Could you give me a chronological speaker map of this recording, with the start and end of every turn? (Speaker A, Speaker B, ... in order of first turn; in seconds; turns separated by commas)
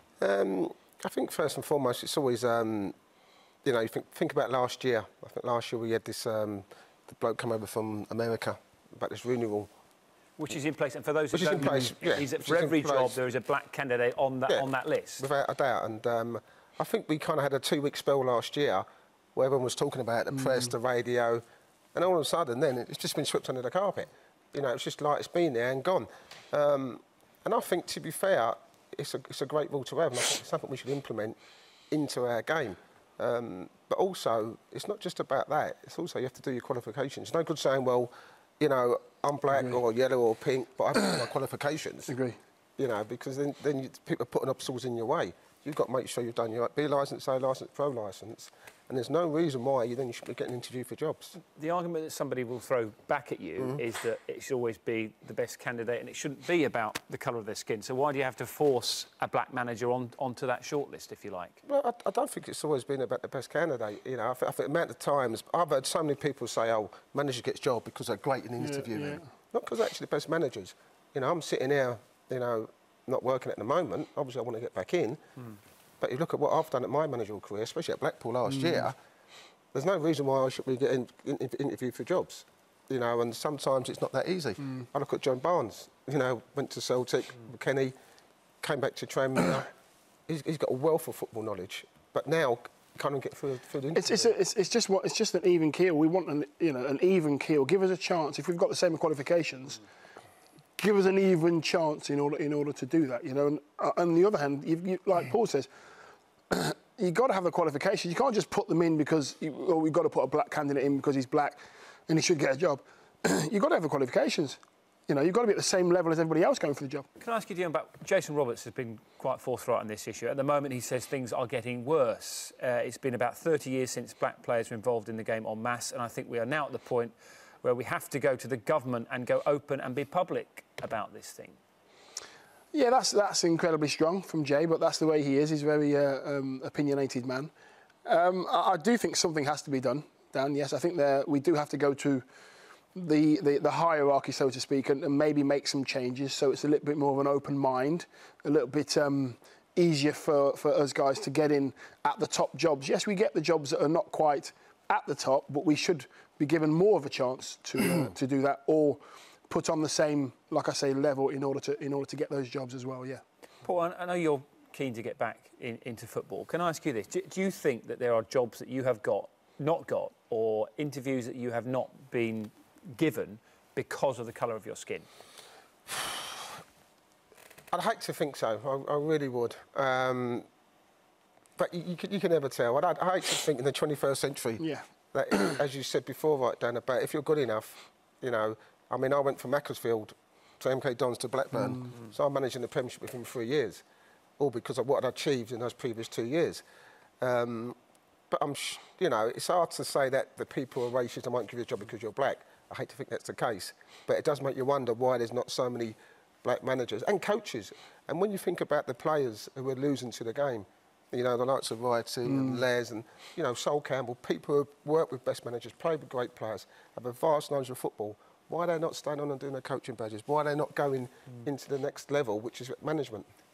Speaker A: 0.2-3.0, Speaker A: 3.6-9.7, Speaker B: 10.4-15.2, Speaker A: 11.3-13.2, Speaker A: 14.5-21.4, Speaker A: 21.9-31.4, Speaker A: 31.9-42.1, Speaker C: 42.1-42.4, Speaker A: 42.8-51.4, Speaker B: 51.4-61.6, Speaker A: 61.6-75.2, Speaker C: 68.6-69.2, Speaker A: 76.0-79.0, Speaker A: 79.7-88.0, Speaker A: 88.6-89.7, Speaker A: 90.3-94.3, Speaker C: 94.0-99.8, Speaker C: 100.8-105.7, Speaker C: 106.5-117.1, Speaker B: 117.2-131.6, Speaker C: 132.7-137.5, Speaker C: 138.1-142.2, Speaker C: 142.9-163.2, Speaker B: 163.6-175.1, Speaker A: 177.7-180.5, Speaker A: 181.6-193.8, Speaker A: 194.4-196.6, Speaker A: 197.2-197.8, Speaker A: 198.3-223.3, Speaker C: 212.3-212.6